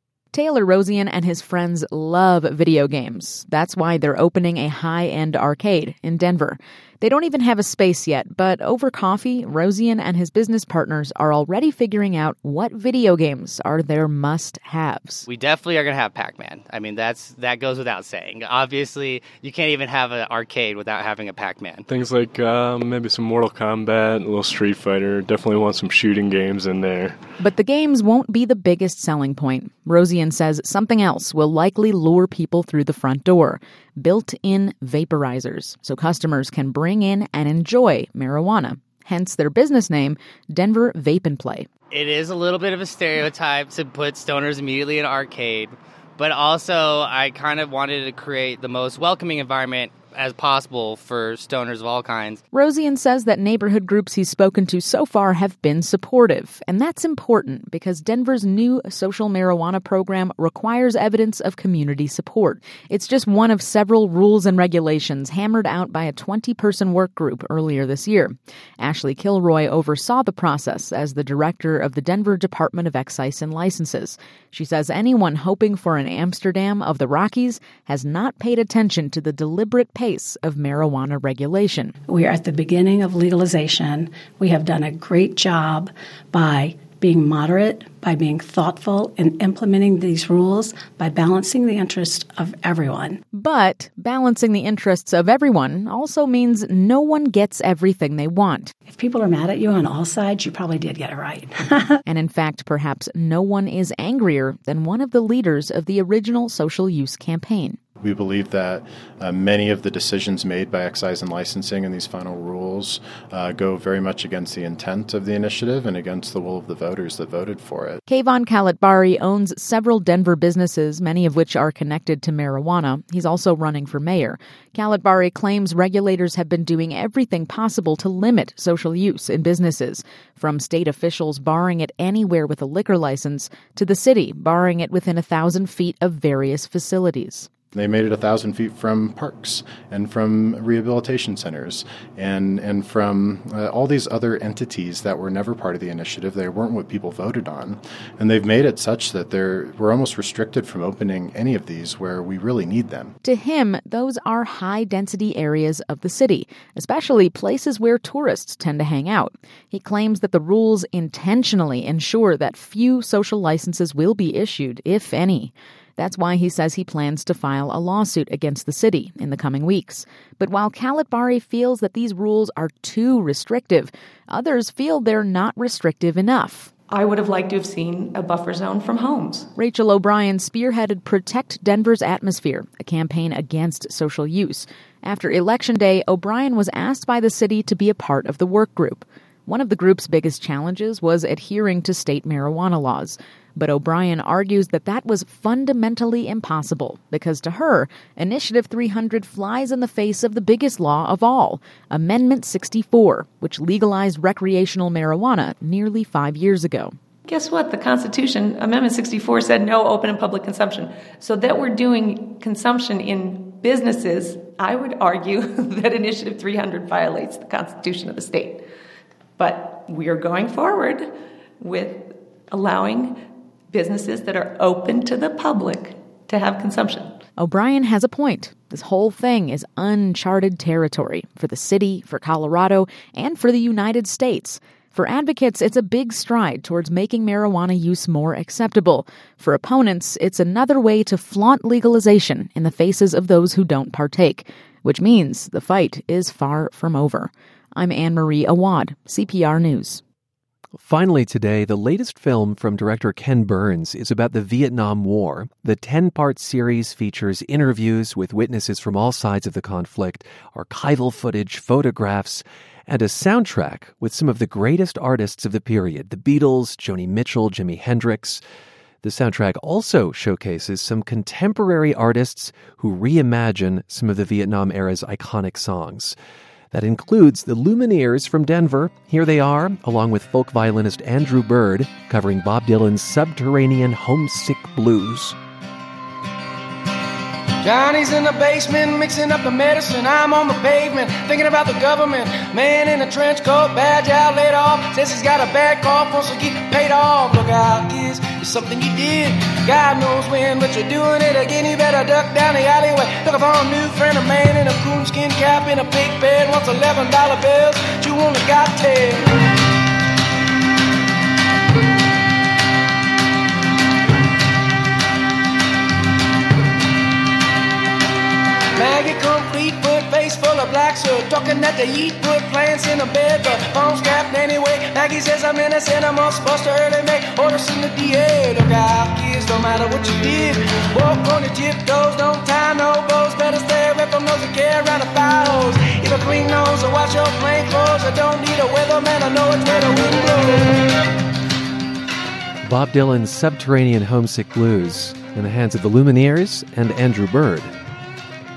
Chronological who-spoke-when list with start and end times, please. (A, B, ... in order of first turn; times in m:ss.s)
0:00.3-0:15.3 A
0:15.3-0:21.8 B
0:21.9-0:27.2 C
0:27.4-0:41.7 A
0:41.9-0:52.4 B
0:52.5-1:21.9 A
1:22.1-1:33.2 D
1:33.3-1:38.7 A
1:38.9-1:42.0 D
1:42.1-1:47.8 A
1:48.0-1:58.0 E
1:58.1-2:17.5 A
2:17.7-2:33.2 E
2:33.2-2:56.7 A
2:56.9-2:59.5 F
2:59.6-3:27.0 A
3:27.2-3:38.6 F
3:39.4-3:47.2 F
3:47.4-4:10.0 A
4:10.7-4:28.4 G
4:29.0-4:36.2 G
4:36.7-4:45.4 G
4:47.6-5:09.4 H
5:18.8-5:40.8 H
5:42.6-5:47.7 G